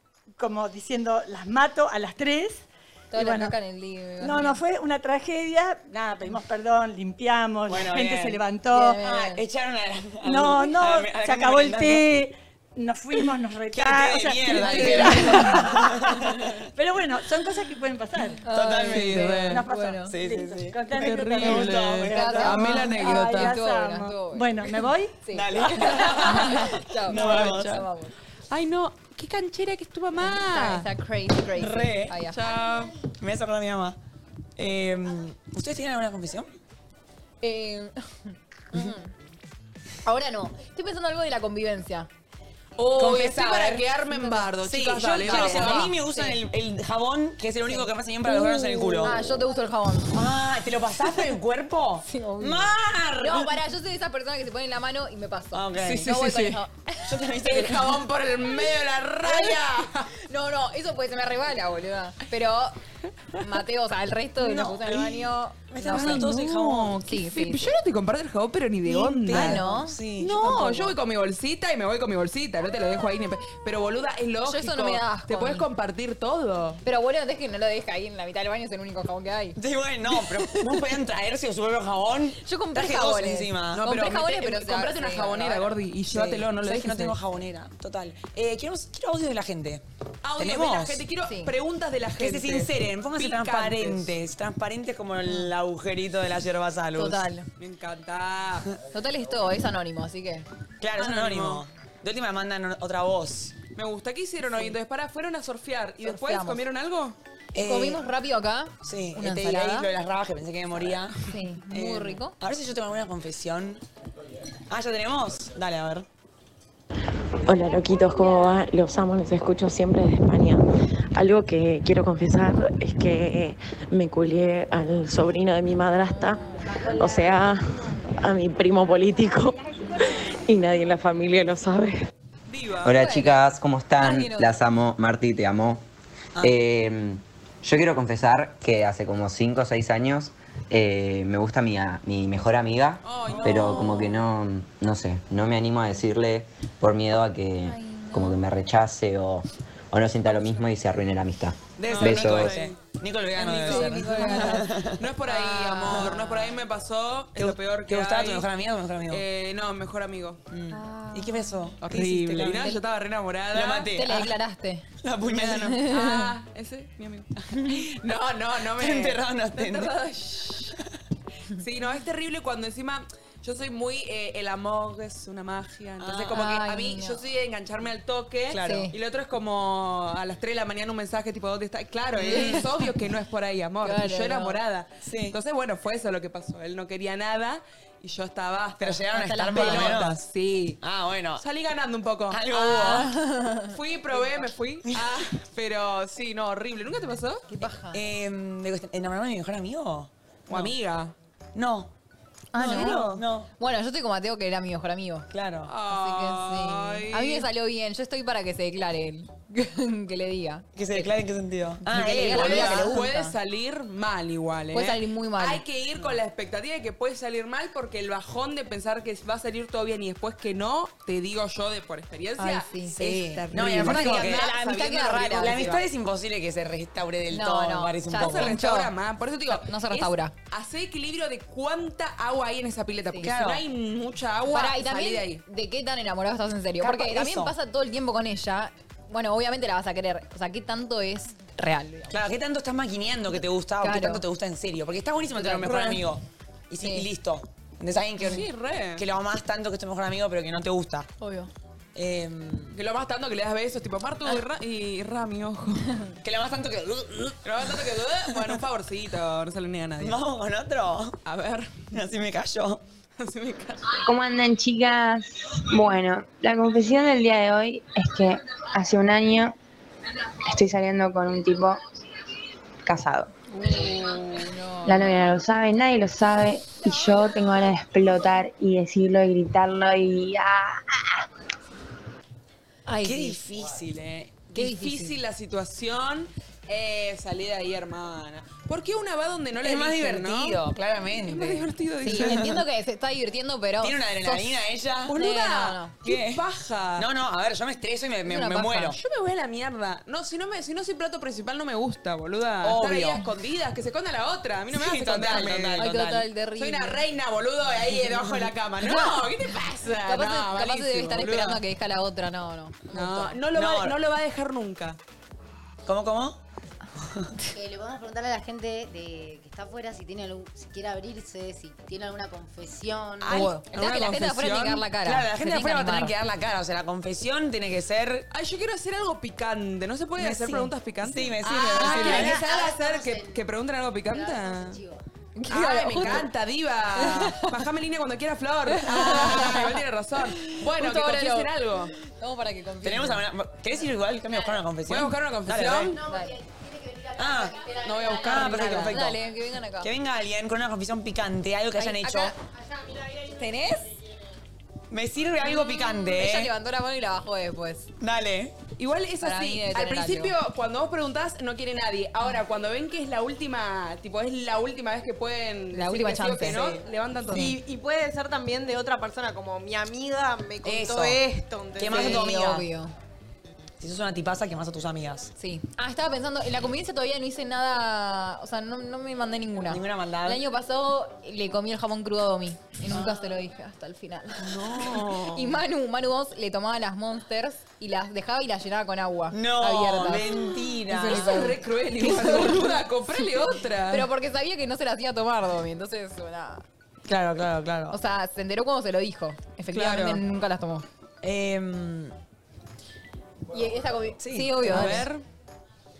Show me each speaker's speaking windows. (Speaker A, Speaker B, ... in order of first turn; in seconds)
Speaker A: 0.4-3.5, 4.2-9.0, 10.2-18.4, 19.4-25.2
Speaker B: 3.1-4.6, 8.7-9.4, 14.6-15.8, 18.4-20.2, 22.1-28.1, 30.2-32.5, 37.4-39.1, 40.0-42.1, 44.1-44.5, 45.2-46.4, 47.7-50.2, 52.0-57.1, 59.2-59.6, 60.3-62.8, 63.4-66.3, 67.0-67.7, 69.3-70.0, 74.5-75.7, 76.8-79.6, 80.1-80.9, 82.5-85.8, 91.3-91.5, 97.0-97.5, 98.9-100.5, 106.0-106.6, 107.6-109.9, 111.3-112.3, 126.0-126.8, 132.9-133.4, 134.0-134.5, 143.4-144.1, 147.7-148.4, 153.6-154.7, 155.2-156.6, 160.7-161.7, 163.9-164.9, 165.6-166.3, 176.3-177.2, 178.6-178.9, 182.2-182.7, 183.8-184.6, 189.1-190.0, 192.9-193.8, 197.5-198.0, 202.5-205.3, 205.9-211.1, 211.8-213.3, 214.7-215.6, 222.4-225.8, 227.3-228.9, 229.5-230.3, 234.5-242.2, 243.8-244.2, 245.4-246.0, 246.8-247.1, 251.2-251.5, 273.6-275.1, 282.9-283.4, 284.5-285.2, 292.0-295.9, 298.3-299.0, 305.8-307.0, 308.8-309.2, 310.1-313.4, 323.3-326.1, 335.4-336.3, 337.0-337.6, 338.7-341.5, 342.1-343.2, 346.0-346.4, 348.3-349.9, 351.8-352.4, 353.4-353.9, 355.4-357.9, 359.2-360.3, 365.7-366.6, 367.3-367.6, 371.9-372.9, 375.4-384.6, 385.3-396.6, 397.9-400.9, 403.5-405.1
Speaker C: 7.7-8.4, 9.0-12.1, 13.7-16.5, 18.5-19.3, 20.0-22.3, 25.3-27.9, 31.5-32.3, 33.1-34.0, 34.6-36.5, 43.0-43.8, 44.6-49.2, 50.1-53.5, 55.5-56.1, 57.0-58.0, 64.4-67.0, 68.8-70.9, 79.6-83.9, 86.1-89.8, 90.4-91.0, 92.2-97.2, 100.8-103.6, 107.5-108.0, 108.8-111.2, 111.7-113.8, 114.7-116.1, 143.3-143.9, 151.8-155.1, 155.8-156.2, 157.4-159.2, 160.5-162.8, 163.5-164.3, 165.0-165.8, 168.7-169.9, 176.0-176.4, 178.5-178.9, 182.2-182.7, 185.0-185.4, 188.8-190.3, 190.8-191.4, 192.3-193.1, 194.9-195.1, 197.9-200.7, 201.6-201.9, 202.6-203.5, 205.3-205.7, 210.8-213.1, 223.0-224.6, 225.2-228.6, 233.2-233.6, 236.8-237.6, 242.1-251.1, 251.9-252.8, 256.2-258.6, 260.0-261.2, 261.9-262.8, 283.0-284.5, 289.6-292.6, 293.8-295.1, 296.0-296.4, 297.0-299.0, 302.6-303.2, 304.7-306.3, 313.5-314.0, 315.9-316.4, 317.0-317.3, 323.2-324.1, 325.0-328.3, 330.2-332.4, 342.8-346.0, 347.2-347.5, 348.1-349.2, 349.8-352.3, 354.9-356.5, 358.0-358.5, 366.5-366.8, 370.6-371.2, 371.8-372.7, 373.8-375.3, 379.7-380.4, 382.9-383.3, 384.4-385.6, 389.3-391.6, 397.1-398.0, 401.2-402.1, 404.2-405.1
Speaker D: 18.9-19.6, 21.0-23.5, 27.1-27.6, 28.5-30.9, 32.3-32.9, 42.8-45.9, 55.8-56.6, 57.5-60.1, 65.9-69.7, 70.2-76.8, 83.8-87.2, 90.2-94.1, 97.6-98.7, 101.0-101.7, 103.8-107.2, 132.5-132.9, 143.0-144.0, 151.9-152.8, 153.4-158.5, 159.1-160.4, 161.8-163.9, 165.2-170.8, 171.6-190.8, 191.4-193.1, 193.7-197.4, 200.5-201.1, 202.6-203.2, 205.7-207.5, 212.2-225.8, 228.2-235.4, 248.2-249.0, 252.7-255.9, 257.4-260.2, 261.2-261.9, 263.2-264.0, 273.9-274.2, 284.5-290.6, 291.2-292.5, 295.1-297.1, 298.9-305.9, 306.6-311.6, 312.9-315.0, 323.3-324.8, 328.3-334.8, 335.5-341.9, 344.9-346.0, 347.8-349.0, 358.8-367.5, 390.9-394.1, 399.7-400.2, 404.6-405.2
Speaker E: 117.5-132.1
Speaker F: 132.8-135.8, 136.4-152.5
Speaker G: 263.9-269.5, 270.5-271.8, 272.9-273.3, 274.9-281.0
Speaker H: 317.5-323.4, 331.8-333.5, 334.1-335.0, 345.9-348.7, 352.4-353.4
Speaker I: 367.3-372.2